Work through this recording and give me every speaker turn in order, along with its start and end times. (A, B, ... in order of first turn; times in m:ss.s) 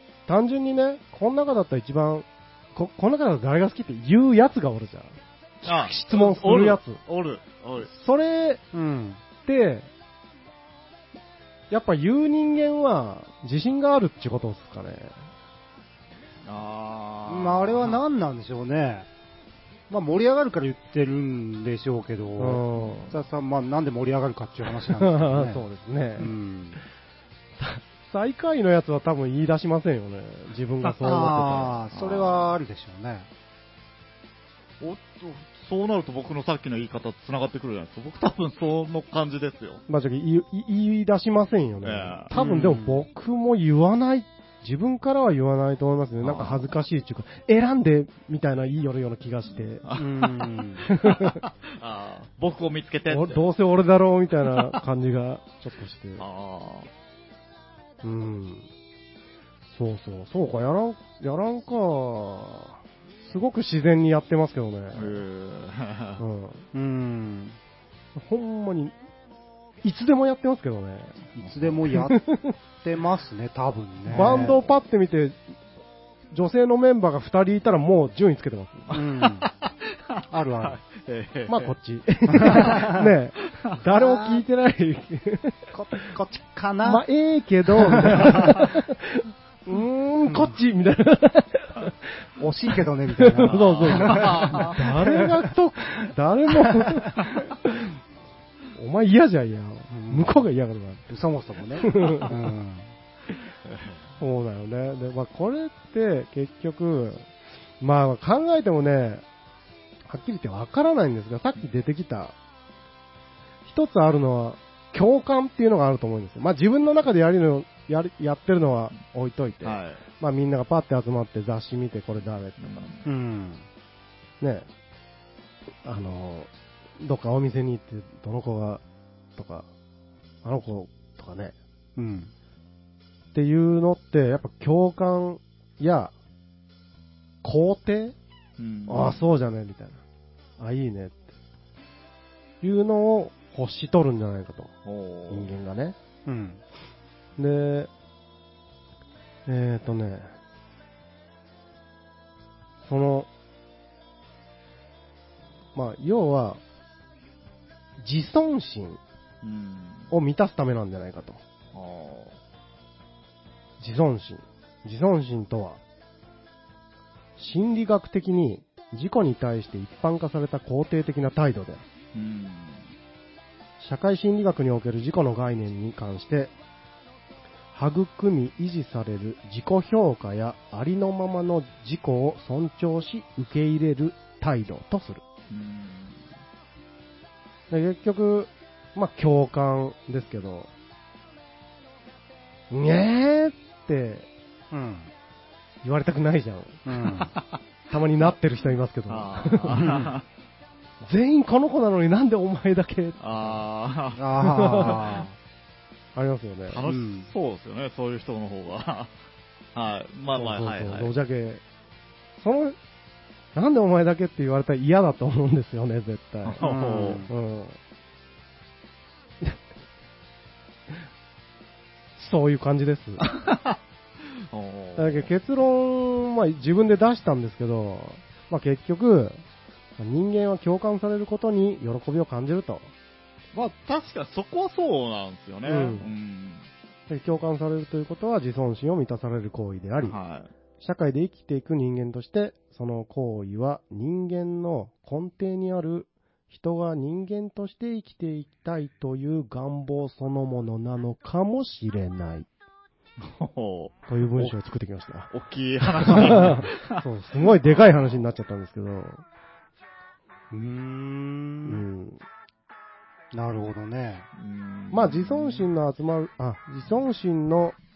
0:00.3-0:07.0 A
0:05.6-0:07.9 B
0:07.8-0:08.6 A
0:08.7-0:09.2 C
0:09.4-0:09.9 A
0:11.7-0:15.2 A
0:16.4-0:18.0 B
0:17.3-0:19.1 C
0:19.9-0:25.6 C
0:22.4-0:23.1 A
0:24.9-0:26.3 A
0:26.2-0:26.8 C
0:27.6-0:31.7 A
0:31.0-0:33.3 C
0:31.2-0:32.6 B
0:34.8-0:39.8 B
0:39.9-0:49.8 A
0:41.8-0:42.3 B
0:42.3-0:43.0 C
0:46.2-0:46.7 B
0:49.8-0:53.4 B
0:49.9-0:50.9 C
0:50.9-0:51.4 A
0:53.1-0:56.2 A
0:56.2-0:56.9 B
0:58.0-0:58.7 A
0:59.7-1:05.2 A
1:04.9-1:06.2 B
1:06.2-1:06.6 A
1:06.7-1:07.6 C
1:08.1-1:08.9 A
1:09.8-1:11.3 A
1:11.4-1:12.2 C
1:11.9-1:12.5 A
1:12.8-1:14.6 C
1:14.1-1:15.4 A
1:16.3-1:18.9 A
1:18.9-1:19.5 C
1:19.4-1:21.7 B
1:20.3-1:20.8 C
1:21.5-1:25.7 A
1:22.3-1:23.0 C
1:24.0-1:24.4 C
1:25.7-1:27.0 C
1:26.8-1:31.9 A
1:27.7-1:28.6 C
1:32.4-1:35.4 C
1:33.2-1:38.0 A
1:33.4-1:34.7 B
1:36.0-1:37.1 C
1:38.7-1:41.1 A
1:39.9-1:40.4 C
1:41.1-1:42.9 C
1:41.8-1:42.3 A
1:43.6-1:44.0 B
1:44.2-1:47.3 A
1:47.8-1:49.2 A
1:50.0-1:52.3 A
1:53.6-2:02.9 A
1:59.6-2:00.0 B
2:02.6-2:03.0 B
2:03.0-2:03.6 C
2:04.4-2:04.7 A
2:05.8-2:08.8 A
2:09.4-2:09.7 A
2:10.4-2:11.5 A
2:12.0-2:12.3 C
2:13.3-2:16.1 A
2:17.4-2:18.2 A
2:18.6-2:19.3 B
2:18.9-2:20.0 A
2:20.6-2:21.3 A
2:22.6-2:24.7 A
2:24.8-2:25.5 B
2:25.3-2:26.0 A
2:26.2-2:26.6 C
2:27.4-2:27.9 A
2:29.4-2:30.3 A
2:32.8-2:33.3 A
2:35.7-2:36.6 A
2:38.0-2:39.0 A
2:39.4-2:40.1 B
2:40.1-2:41.4 A
2:41.7-2:42.4 B
2:43.8-2:45.8 A
2:47.4-2:51.8 A
2:52.1-2:52.8 B
2:53.8-2:56.5 A
2:57.7-3:05.2 A
3:05.5-3:06.2 B
3:07.7-3:10.7 A
3:12.7-3:14.3 A
3:14.7-3:15.1 C
3:15.8-3:16.8 A
3:16.8-3:17.3 C
3:17.3-3:17.6 B
3:17.9-3:20.0 A
3:19.1-3:20.2 B
3:21.0-3:23.6 A
3:23.2-3:25.2 B
3:24.2-3:25.3 C
3:24.4-3:25.0 A
3:26.1-3:26.8 A
3:26.7-3:29.1 B
3:26.9-3:27.3 C
3:29.7-3:31.1 B
3:30.3-3:31.6 A
3:32.4-3:32.8 A
3:33.5-3:36.7 A
3:36.4-3:37.3 B
3:36.6-3:37.3 C
3:37.2-3:37.8 A
3:42.2-3:43.2 A
3:43.2-3:43.8 B
3:44.5-3:45.3 B
3:45.0-3:49.4 A
3:50.0-3:52.9 A
3:53.5-3:56.7 B
3:55.6-3:56.1 A
3:57.1-4:00.2 A
4:00.0-4:00.5 B
4:00.8-4:12.5 A
4:13.2-4:14.6 B
4:14.1-4:15.3 A
4:15.3-4:18.2 B
4:16.0-4:19.2 A
4:20.5-4:21.8 C
4:21.6-4:22.2 A
4:23.3-4:24.3 C
4:24.4-4:25.7 B
4:24.9-4:27.8 A